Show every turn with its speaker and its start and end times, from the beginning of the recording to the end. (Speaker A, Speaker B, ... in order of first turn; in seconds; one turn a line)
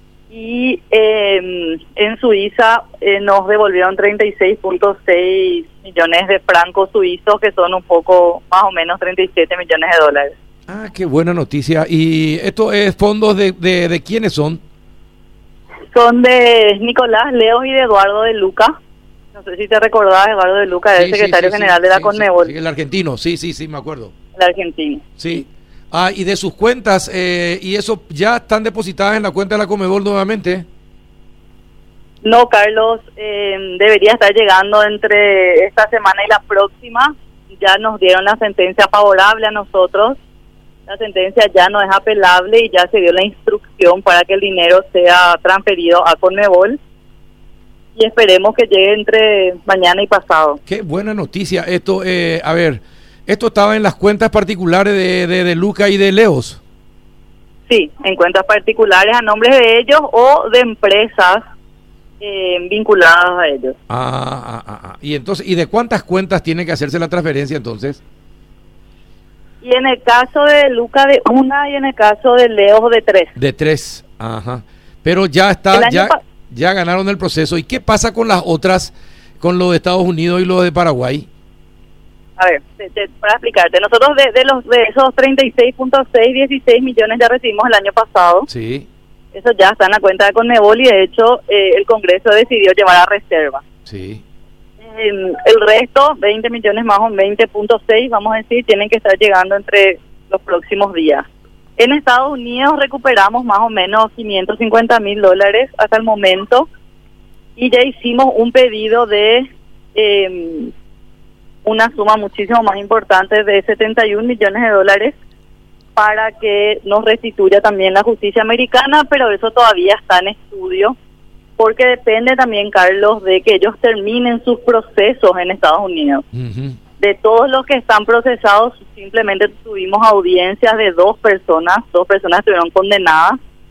Speaker A: 0.3-10.3
Speaker B: 10.7-14.6
Speaker A: 15.9-18.8
Speaker A: 19.4-22.5
Speaker B: 20.9-24.1
Speaker A: 24.4-25.0
Speaker B: 25.2-30.6
Speaker A: 32.2-40.2
Speaker A: 40.9-46.8
Speaker A: 48.0-50.6
Speaker B: 50.7-56.6
Speaker A: 57.7-61.4
Speaker A: 62.2-63.8
Speaker B: 63.9-68.0
Speaker A: 69.6-73.3
Speaker B: 73.4-81.3
Speaker A: 75.7-76.2
Speaker A: 82.4-88.5
Speaker B: 88.5-88.9
Speaker A: 89.3-93.6
Speaker B: 93.9-94.2
Speaker A: 94.8-101.3
Speaker A: 101.8-106.7
Speaker A: 107.6-110.7
Speaker A: 111.7-115.2
Speaker A: 116.0-121.0
Speaker A: 121.6-126.2
Speaker B: 126.3-126.8
Speaker A: 127.0-133.4